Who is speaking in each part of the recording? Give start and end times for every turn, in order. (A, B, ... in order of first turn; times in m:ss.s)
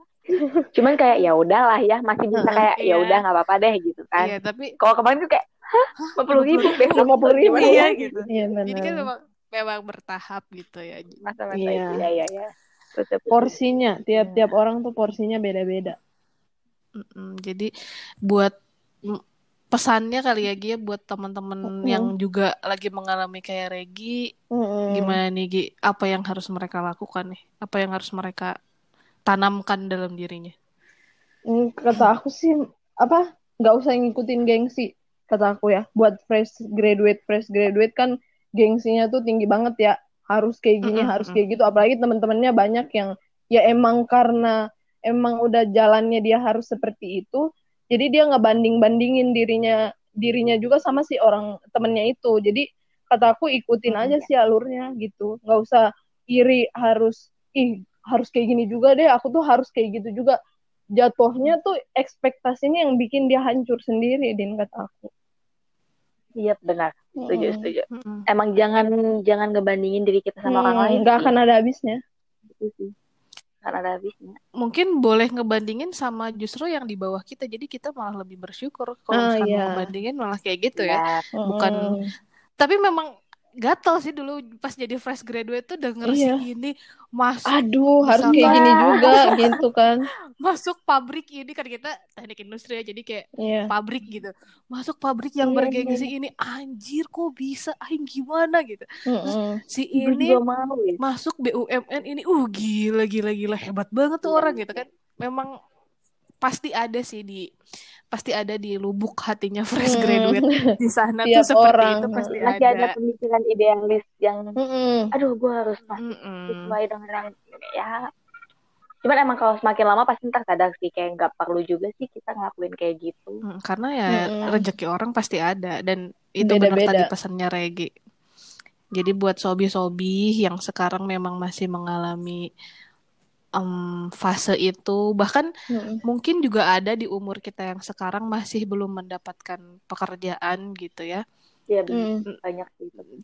0:00.4-0:00.7 A
0:00.7-0:08.2 B
0:02.3-0:02.6 A
0:02.8-0:03.2 C
0:04.2-0:04.8 C
0:06.1-0:07.0 C
0:06.9-0:09.1 A
0:07.5-0:11.2 C
0:11.2-0:13.6 B
0:11.6-0:11.9 A
0:13.3-0:16.0 A
0:14.2-0:14.5 B
0:17.0-0:17.7 C
0:19.7-0:24.2 C
0:21.7-0:22.1 A
0:24.6-0:25.2 A
0:24.9-0:28.5 C
0:29.3-0:30.5 C
0:31.5-0:44.6 A
0:40.9-0:41.4 C
0:45.1-0:55.8 A
0:56.3-1:00.4 A
1:01.0-1:05.1 A
1:06.4-1:11.3 B
1:07.2-1:07.7 A
1:07.9-1:08.2 C
1:10.5-1:12.0 A
1:12.5-1:12.9 B
1:13.6-1:14.4 B
1:14.6-1:22.0 C
1:19.2-1:19.8 A
1:20.8-1:21.2 B
1:21.4-1:22.0 A
1:22.6-1:23.1 C
1:23.6-1:29.3 C
1:26.0-1:26.4 A
1:27.5-1:30.0 A
1:28.3-1:29.3 B
1:30.4-1:40.4 C
1:33.4-1:33.7 A
1:35.5-1:36.1 A
1:35.6-1:36.0 B
1:39.1-1:39.6 A
1:40.0-1:41.0 B
1:41.0-1:45.5 C
1:44.3-1:44.9 B
1:46.4-1:47.5 C
1:48.1-1:52.9 C
1:49.8-1:50.6 A
1:51.3-1:52.3 A
1:52.4-1:54.6 B
1:54.6-1:55.1 A
1:55.1-1:58.0 B
1:56.0-1:56.8 C
1:59.0-2:03.4 B
2:03.5-2:07.9 C
2:04.1-2:04.6 A
2:06.4-2:07.1 A
2:09.0-2:12.4 C
2:13.6-2:15.5 C
2:15.7-2:16.0 A
2:16.0-2:21.2 C
2:21.7-2:23.0 B
2:21.9-2:22.2 A